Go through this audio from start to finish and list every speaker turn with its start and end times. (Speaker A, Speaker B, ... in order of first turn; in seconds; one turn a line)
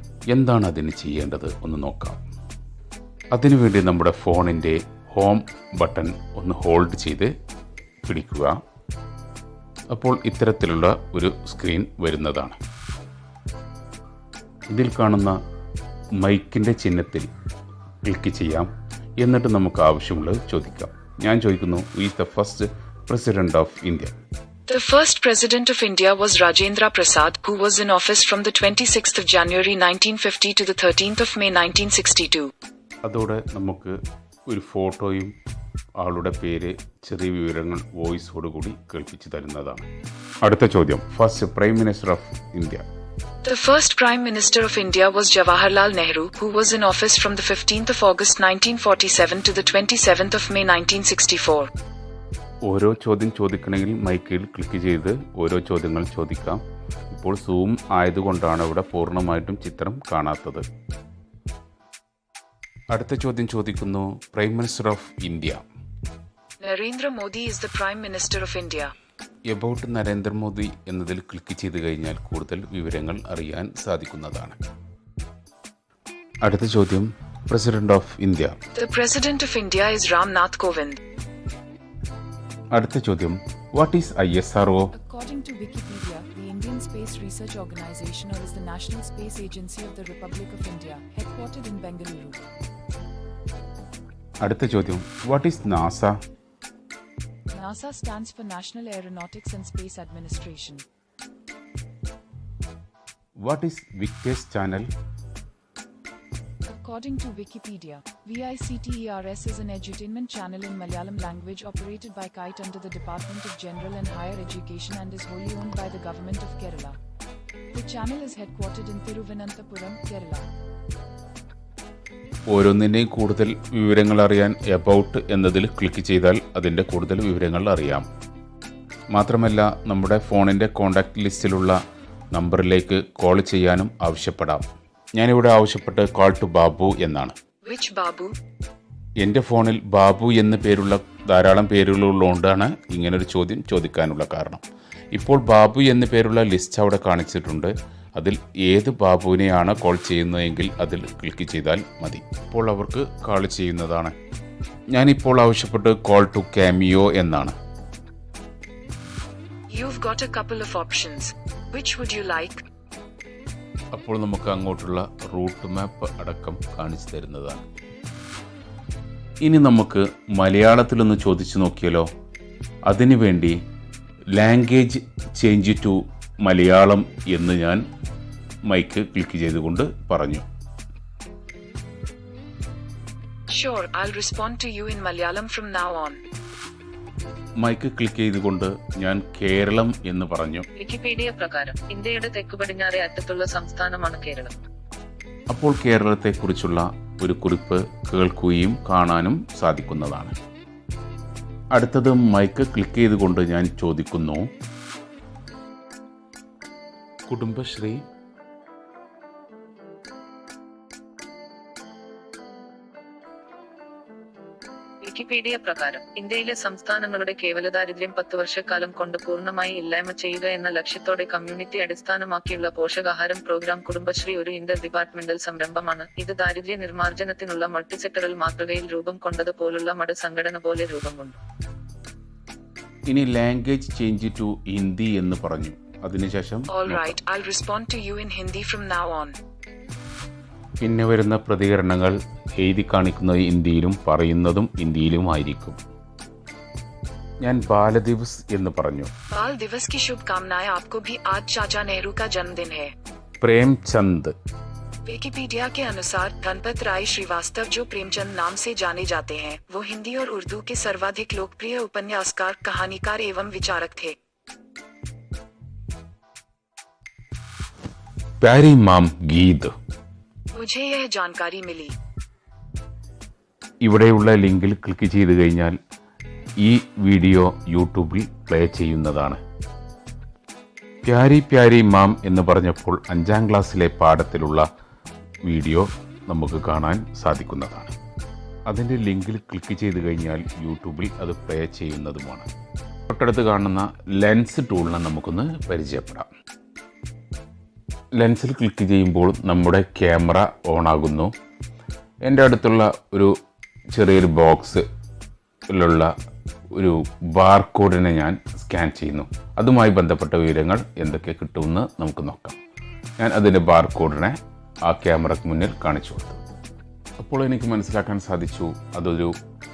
Speaker A: 0.3-2.2
Speaker A: 3.3-7.3
Speaker A: 8.0-8.6
Speaker A: 9.9-12.6
Speaker A: 14.7-15.4
Speaker A: 16.2-17.3
Speaker A: 18.0-18.7
Speaker A: 19.2-24.1
Speaker B: 24.7-32.5
Speaker A: 33.0-34.0
Speaker A: 34.5-35.4
Speaker A: 36.0-39.9
Speaker A: 40.4-42.8
Speaker B: 43.5-51.7
Speaker A: 52.6-60.6
Speaker A: 62.9-65.6
Speaker B: 66.6-68.9
Speaker A: 69.5-74.6
Speaker A: 76.4-78.6
Speaker B: 78.8-81.0
Speaker A: 82.7-84.9
Speaker C: 84.9-92.4
Speaker A: 94.4-96.2
Speaker C: 97.5-100.8
Speaker A: 103.4-104.9
Speaker C: 106.7-117.0
Speaker C: 117.7-120.4
Speaker A: 122.5-128.1
Speaker A: 129.1-131.8
Speaker A: 132.3-137.3
Speaker B: 137.7-138.3
Speaker A: 139.2-154.1
Speaker A: 154.9-157.6
Speaker B: 159.7-162.7
Speaker A: 163.9-167.7
Speaker A: 169.4-172.1
Speaker A: 172.9-173.6
Speaker A: 174.3-177.8
Speaker A: 178.7-180.4
Speaker B: 183.5-186.2
Speaker A: 187.6-190.7
Speaker D: 190.8-194.5
Speaker A: 195.5-200.4
Speaker A: 201.7-204.5
Speaker A: 207.3-208.0
Speaker D: 215.0-231.4
Speaker A: 233.1-237.2
Speaker B: 236.7-239.4
Speaker A: 240.8-245.8
Speaker A: 247.4-249.1
Speaker B: 249.3-252.9
Speaker A: 253.4-254.3
Speaker B: 255.1-264.2
Speaker A: 268.4-269.7
Speaker B: 270.5-271.9
Speaker A: 273.8-275.8
Speaker A: 276.6-279.4
Speaker A: 281.0-284.7
Speaker A: 285.4-287.9
Speaker A: 288.7-292.5
Speaker A: 293.1-296.3
Speaker A: 298.2-301.3
Speaker A: 302.2-303.3
Speaker A: 304.0-304.9
Speaker A: 305.7-306.1
Speaker A: 306.8-312.6
Speaker A: 313.2-316.4
Speaker A: 317.2-319.3